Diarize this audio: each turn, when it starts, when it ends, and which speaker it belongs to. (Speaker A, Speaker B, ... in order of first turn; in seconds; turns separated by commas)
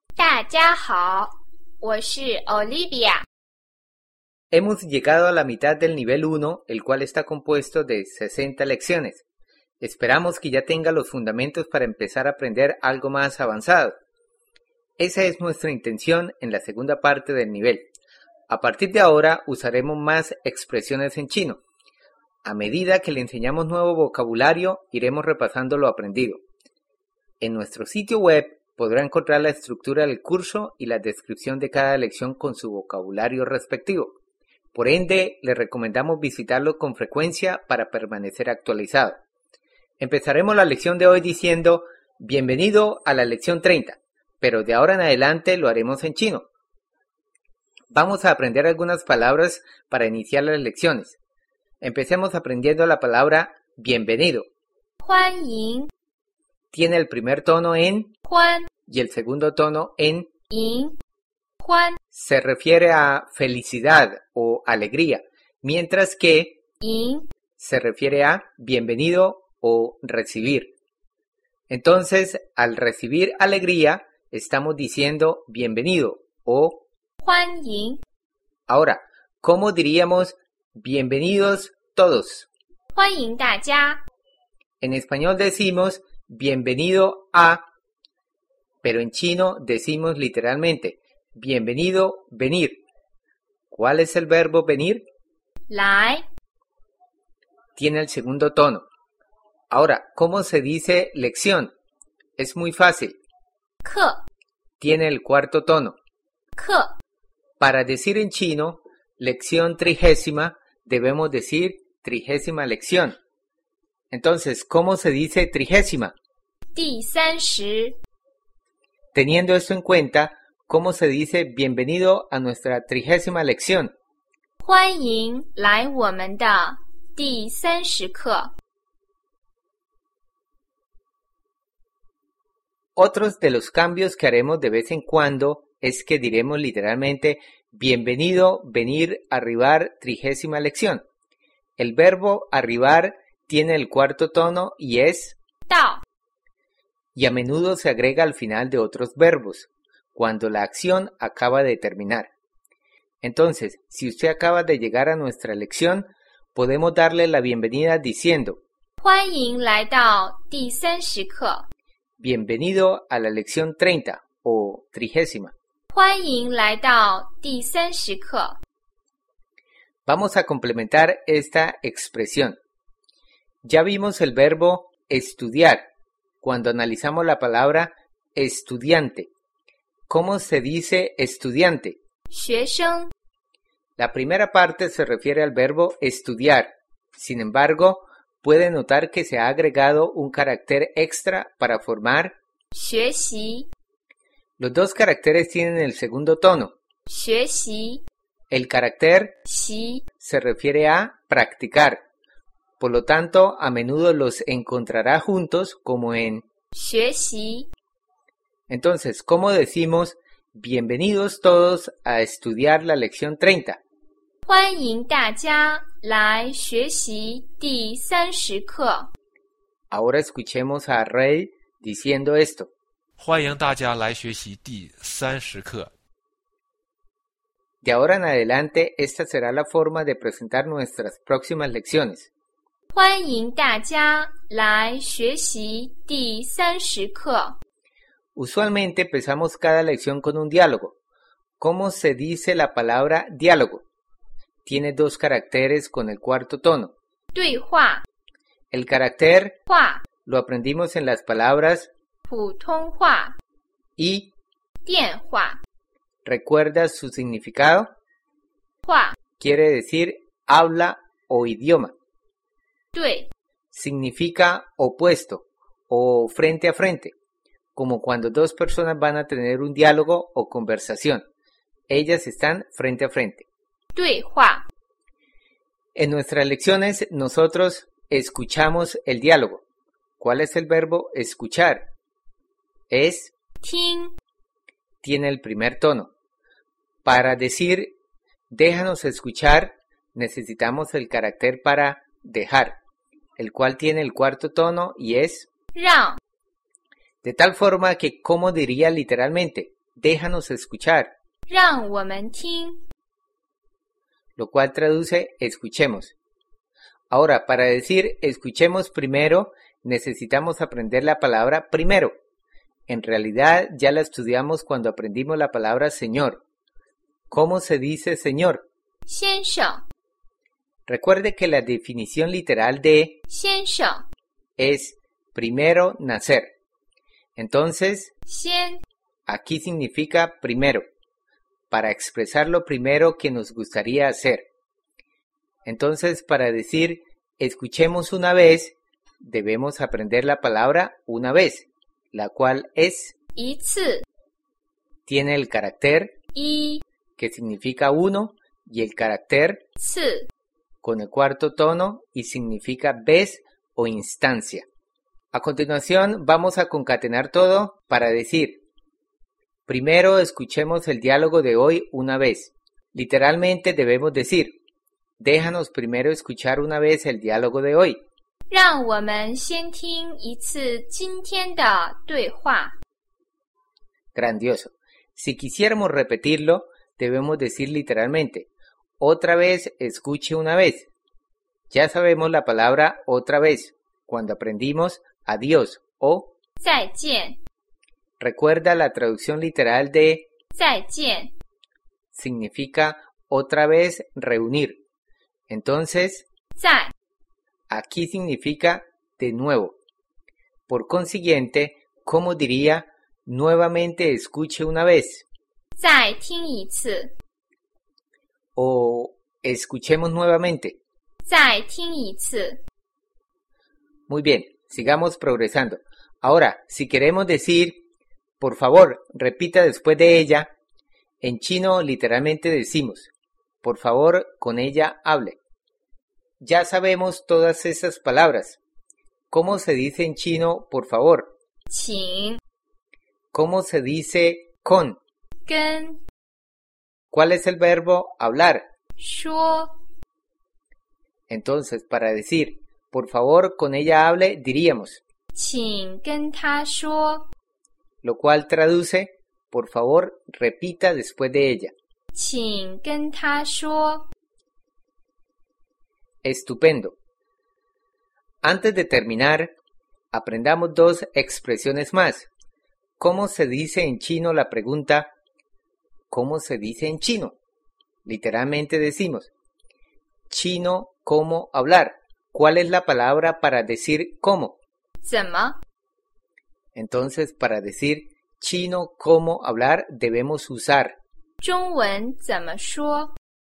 Speaker A: 0.1-3.2, Speaker B: 4.5-9.2, Speaker B: 9.8-13.9, Speaker B: 15.0-17.9, Speaker B: 18.5-21.6, Speaker B: 22.4-26.4, Speaker B: 27.4-34.2, Speaker B: 34.7-39.2, Speaker B: 40.0-46.5, Speaker B: 47.9-51.2, Speaker B: 51.8-54.5, Speaker A: 55.0-55.9, Speaker B: 56.7-58.1, Speaker A: 58.2-58.7, Speaker B: 58.9-60.3, Speaker A: 60.5-60.9, Speaker A: 61.6-62.0, Speaker B: 62.1-66.6, Speaker A: 66.8-67.2, Speaker B: 67.6-70.7, Speaker B: 71.7-76.8, Speaker A: 77.2-78.0, Speaker B: 78.7-82.5, Speaker A: 82.9-84.0, Speaker B: 84.8-87.6, Speaker B: 88.8-92.8, Speaker B: 93.7-95.0, Speaker A: 95.7-96.2, Speaker B: 97.8-98.9, Speaker B: 99.7-101.7, Speaker B: 102.4-103.2, Speaker A: 103.8-104.2, Speaker B: 104.8-106.0, Speaker A: 106.5-106.9, Speaker B: 107.6-113.2, Speaker B: 114.1-116.1, Speaker A: 116.7-118.0, Speaker B: 119.1-123.9, Speaker A: 124.6-128.5, Speaker B: 132.9-141.0, Speaker B: 141.8-145.3, Speaker A: 145.7-146.0, Speaker B: 147.1-152.3, Speaker B: 153.2-158.6, Speaker A: 159.0-161.7, Speaker B: 162.2-165.5, Speaker A: 165.9-168.6, Speaker B: 170.1-172.6, Speaker B: 173.6-175.8, Speaker B: 176.4-179.3, Speaker B: 180.1-182.0, Speaker A: 182.3-183.1, Speaker B: 184.0-192.3, Speaker A: 192.7-193.7, Speaker B: 194.6-196.7, Speaker A: 197.1-198.0, Speaker B: 198.5-199.4, Speaker A: 199.4-200.1, Speaker B: 200.2-202.0, Speaker B: 202.8-206.4, Speaker A: 206.7-207.7, Speaker B: 208.7-213.8, Speaker A: 214.4-219.1, Speaker B: 219.9-222.7, Speaker C: 223.2-225.9, Speaker B: 227.8-232.3, Speaker A: 232.9-237.6, Speaker B: 238.3-240.9, Speaker B: 241.6-243.8, Speaker B: 244.6-246.9, Speaker A: 247.3-248.0, Speaker B: 248.7-249.6, Speaker A: 249.7-250.0, Speaker B: 250.2-251.9, Speaker A: 252.3-253.3, Speaker B: 254.0-254.3, Speaker A: 254.8-255.6, Speaker B: 256.2-257.9, Speaker A: 258.8-259.2, Speaker B: 259.4-261.9, Speaker A: 262.9-263.3, Speaker B: 263.7-267.1, Speaker B: 267.7-271.2, Speaker B: 271.9-273.5, Speaker A: 273.9-274.6, Speaker B: 275.9-279.6, Speaker B: 280.2-281.9, Speaker B: 282.9-283.3, Speaker A: 283.6-284.1, Speaker B: 285.0-286.1, Speaker B: 287.0-287.9, Speaker B: 288.5-292.8, Speaker B: 293.4-295.5, Speaker A: 295.7-296.2, Speaker B: 297.2-301.1, Speaker A: 301.5-302.8, Speaker B: 304.4-306.1, Speaker B: 307.1-312.1, Speaker B: 312.9-316.4, Speaker B: 317.3-318.6, Speaker A: 319.1-319.8, Speaker B: 320.9-323.2, Speaker A: 323.3-324.0, Speaker B: 324.6-326.5, Speaker B: 327.4-328.1, Speaker A: 328.2-328.8, Speaker B: 329.3-330.8, Speaker B: 331.7-334.4, Speaker B: 335.6-343.1, Speaker A: 343.3-344.0, Speaker B: 345.1-346.1, Speaker A: 346.3-346.8, Speaker B: 347.2-349.6, Speaker A: 349.8-350.3, Speaker B: 350.8-354.6, Speaker B: 355.3-358.6, Speaker B: 359.7-364.6, Speaker B: 365.2-368.0, Speaker A: 368.5-372.8, Speaker B: 374.1-378.5, Speaker B: 379.0-380.9, Speaker B: 381.7-386.3, Speaker A: 386.6-387.4, Speaker B: 388.2-390.3, Speaker A: 390.5-391.3, Speaker B: 392.1-394.8, Speaker B: 395.5-396.2, Speaker A: 396.6-396.9, Speaker B: 397.7-399.8, Speaker B: 400.7-405.2, Speaker A: 405.8-407.1, Speaker B: 408.6-410.8, Speaker A: 411.2-412.6, Speaker B: 414.1-417.8, Speaker B: 418.4-420.5, Speaker B: 421.2-423.1, Speaker B: 423.6-425.4, Speaker B: 426.4-428.6, Speaker B: 429.3-431.3, Speaker A: 431.7-432.4, Speaker B: 433.3-435.0, Speaker A: 435.4-436.0, Speaker B: 437.1-438.6, Speaker A: 439.0-439.8, Speaker B: 441.3-445.0, Speaker A: 445.3-447.2, Speaker B: 448.0-451.7, Speaker A: 452.1-454.1, Speaker B: 456.2-456.9, Speaker B: 458.4-459.6, Speaker B: 460.1-462.3, Speaker B: 463.0-465.1, Speaker B: 466.1-467.4, Speaker B: 468.0-469.3, Speaker B: 470.3-474.6, Speaker A: 475.0-475.6, Speaker B: 476.7-481.0, Speaker A: 481.4-483.1